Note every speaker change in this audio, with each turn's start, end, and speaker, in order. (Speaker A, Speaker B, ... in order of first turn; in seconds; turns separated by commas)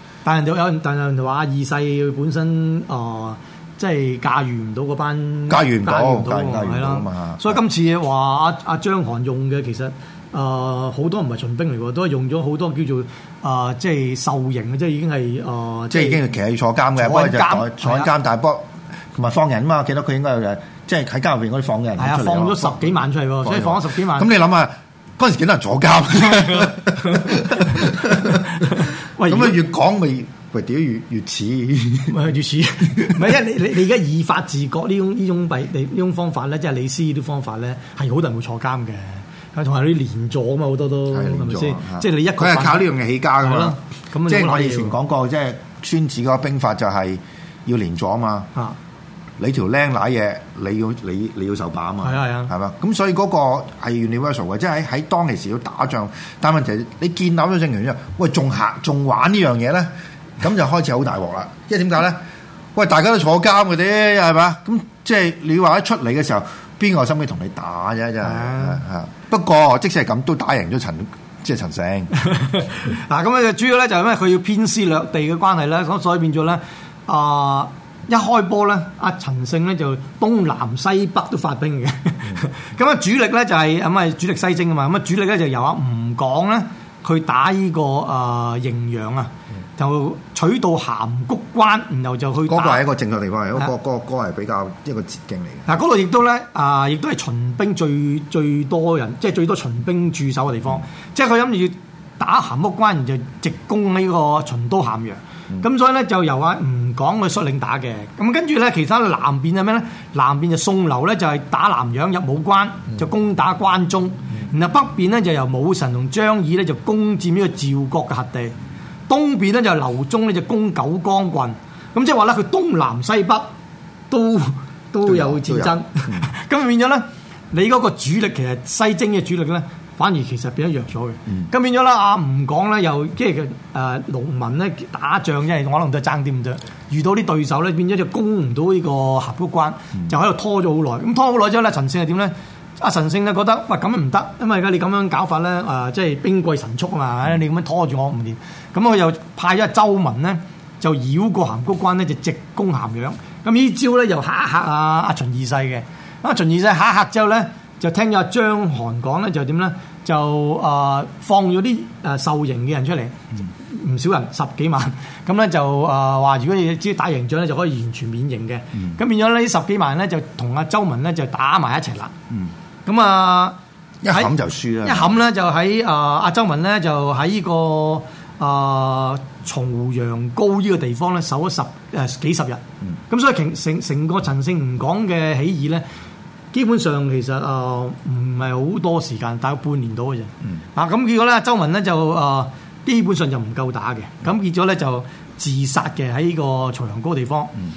Speaker A: 0.2-16.2, Speaker B: 5.5-7.6, Speaker B: 15.9-32.2, Speaker A: 16.9-18.1, Speaker A: 22.0-24.3, Speaker A: 26.6-29.6, Speaker A: 32.1-44.9, Speaker B: 33.0-33.3, Speaker B: 41.1-48.5, Speaker B: 49.4-59.9, Speaker A: 52.0-52.5, Speaker B: 60.4-62.2, Speaker B: 62.7-72.1, Speaker A: 68.2-68.8, Speaker A: 72.1-92.8, Speaker B: 92.5-95.7, Speaker A: 95.7-118.5, Speaker A: 119.1-123.5, Speaker A: 124.1-172.1, Speaker B: 125.0-126.3, Speaker A: 172.8-173.6, Speaker B: 174.0-175.1, Speaker A: 174.8-185.8, Speaker A: 186.5-197.5